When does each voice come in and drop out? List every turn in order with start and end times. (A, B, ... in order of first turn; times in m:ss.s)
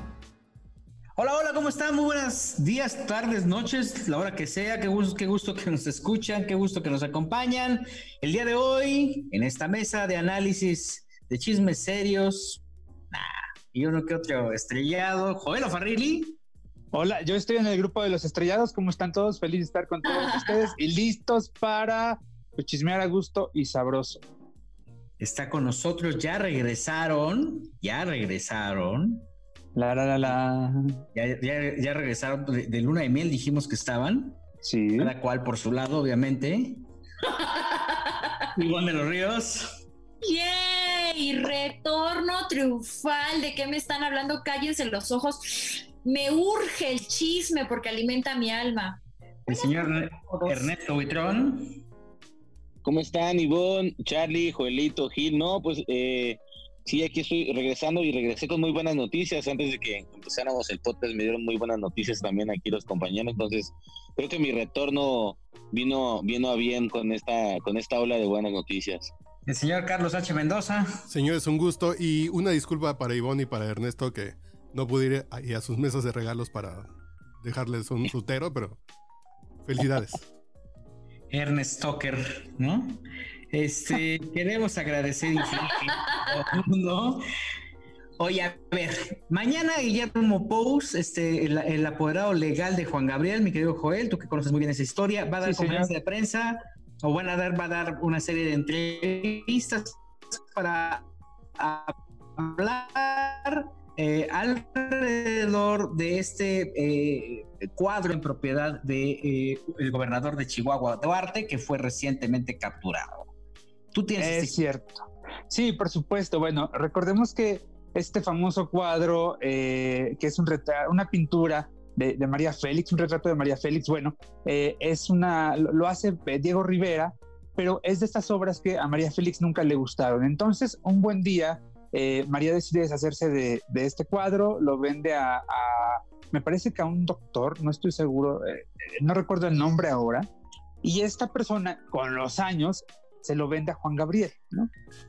0:01.2-0:16.4 A
0:16.9-0:24.2 B
0:20.0-0:20.6 C
0:25.2-0:29.2 A
0:29.7-0:31.0 B
0:31.1-0:34.4 A
0:34.6-0:35.1 B
0:35.0-0:36.8 A
0:37.2-0:38.4 C
0:38.6-0:39.8 A
0:40.2-0:50.7 C
0:49.4-0:51.8 A
0:52.8-1:09.1 D
1:09.5-1:11.0 A
1:11.1-1:16.9 E
1:17.4-1:18.8 E
1:19.6-1:20.3 E
1:21.3-1:23.0 A
1:23.5-1:27.2 A
1:25.6-1:26.4 C
1:28.2-1:41.0 A
1:35.4-1:35.9 B
1:41.6-1:53.3 A
1:53.9-1:54.6 A
1:54.2-2:20.3 B
2:20.8-2:24.7 B